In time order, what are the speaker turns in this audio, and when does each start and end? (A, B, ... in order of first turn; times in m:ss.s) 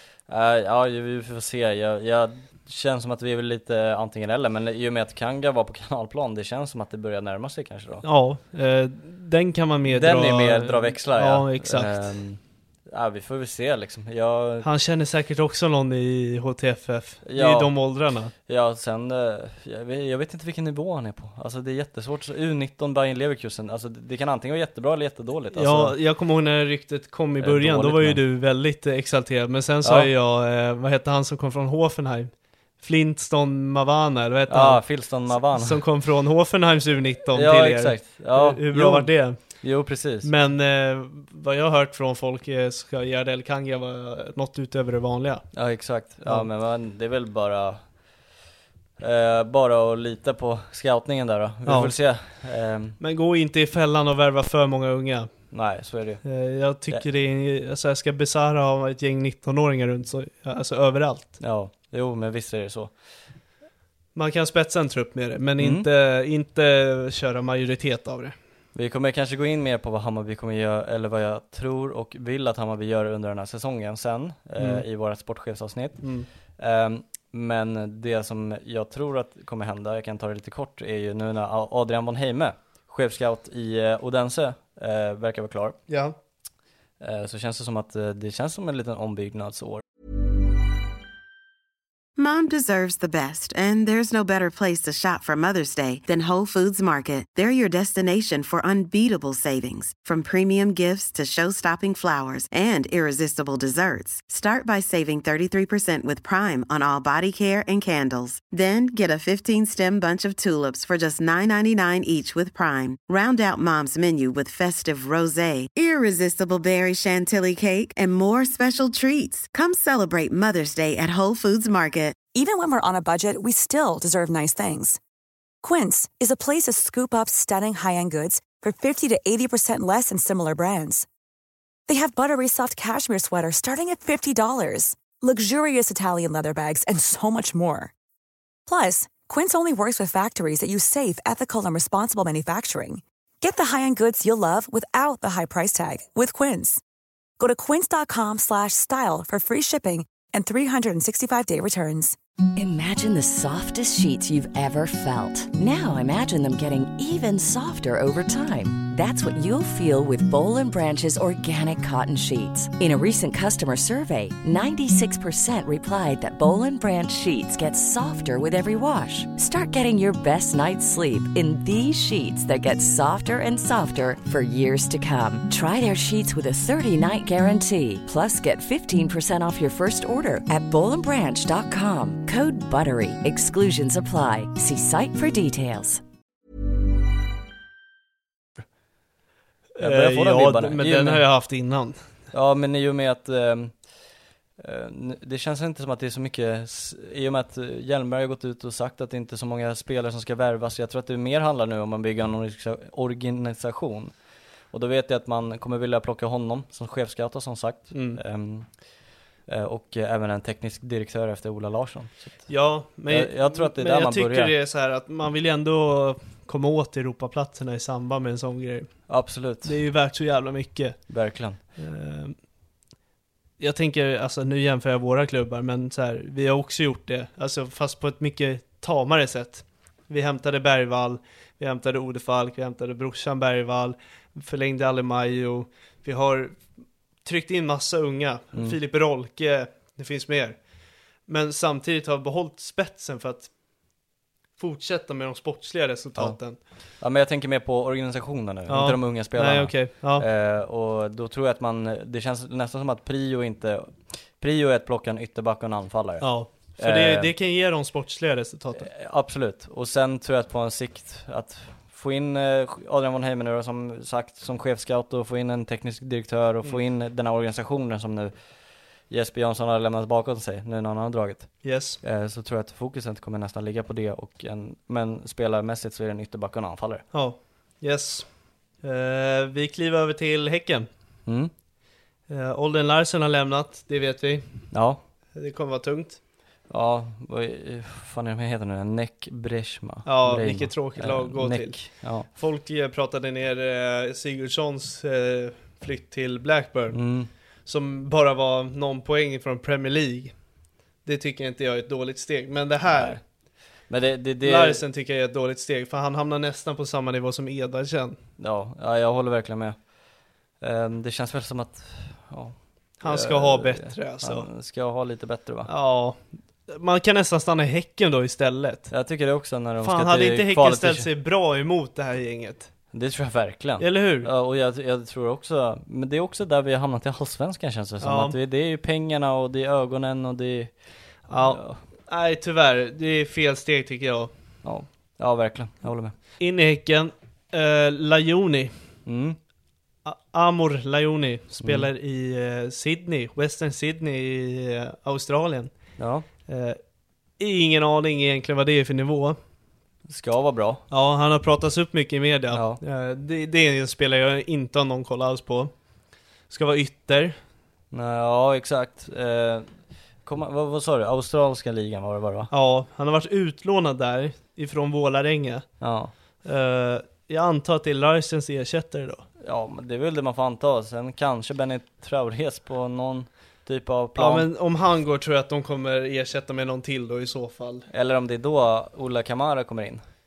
0:00.3-0:08.0 A
0:08.0-0:12.1 B
0:09.9-0:14.7 A
0:14.6-0:18.3 B
0:17.2-0:17.7 A
0:18.5-0:25.9 A
0:25.5-0:39.6 B
0:27.4-0:28.2 A
0:29.8-0:30.1 A
0:34.5-0:35.8 A
0:37.3-0:40.3 A
0:40.2-0:45.4 B
0:45.5-0:47.8 A
0:49.0-0:53.0 A
0:51.6-0:51.9 B
0:53.0-0:55.3 B
0:55.5-0:56.2 A
0:56.2-1:01.4 B
1:01.4-1:02.9 A
1:04.1-1:08.3 B
1:05.6-1:05.9 A
1:08.7-1:25.8 A
1:14.6-1:14.8 B
1:16.0-1:16.3 B
1:25.9-1:26.1 B
1:27.0-1:29.8 A
1:32.2-2:02.2 C
2:02.3-2:05.0 D
2:05.6-2:11.0 D
2:11.9-2:17.9 D
2:18.7-2:26.8 D
2:27.4-2:32.2 D
2:32.6-3:06.0 E
3:09.8-3:12.0 B
3:09.8-3:11.2 A
3:12.3-3:13.7 A
3:14.6-3:24.1 A
3:24.7-3:28.7 A
3:27.9-3:28.2 B
3:29.5-3:32.5 A
3:32.5-3:39.1 B
3:33.1-3:34.5 A
3:39.1-3:39.8 A
3:39.6-3:41.0 B
3:41.1-3:41.6 A
3:41.8-3:42.3 B
3:43.6-3:56.6 B
3:57.2-4:00.6 B
4:01.3-4:03.5 B
4:04.6-4:06.6 B
4:07.0-4:17.3 A
4:08.7-4:10.2 B
4:16.2-4:18.9 B
4:18.8-4:28.3 A
4:29.1-4:37.0 A
4:31.6-4:32.0 B
4:37.1-4:38.3 B
4:38.8-4:40.9 B
4:41.2-4:41.5 A
4:42.3-4:44.5 B
4:44.7-4:45.0 A
4:45.3-4:46.2 B
4:46.7-4:52.3 A
4:50.0-4:57.0 B
4:56.9-4:57.3 A
4:57.6-5:00.3 B
5:01.0-5:03.2 B
5:02.9-5:03.2 A
5:03.9-5:04.8 A
5:04.4-5:08.2 B
5:08.4-5:09.8 A
5:10.6-5:15.7 A
5:13.0-5:14.5 B
5:15.7-5:18.9 B
5:18.9-5:21.1 A
5:19.8-5:22.7 B
5:22.9-5:30.7 A
5:23.8-5:24.3 B
5:28.0-5:28.4 B
5:31.3-5:31.8 A
5:31.3-5:34.3 B
5:34.6-5:36.1 A
5:36.4-5:38.7 B
5:39.0-5:39.4 A
5:40.0-5:45.7 B
5:41.6-5:41.9 A
5:46.0-5:46.2 A
5:46.5-5:46.8 B
5:47.4-5:49.4 B
5:50.1-5:50.8 A
5:50.9-5:55.7 B
5:52.5-5:52.8 A
5:56.5-5:57.3 B
5:57.9-5:59.7 A
6:00.2-6:02.5 A
6:02.5-6:05.6 B
6:05.8-6:06.1 A
6:06.4-6:09.2 B
6:09.4-6:14.5 A
6:14.2-6:17.8 B
6:17.9-6:20.0 A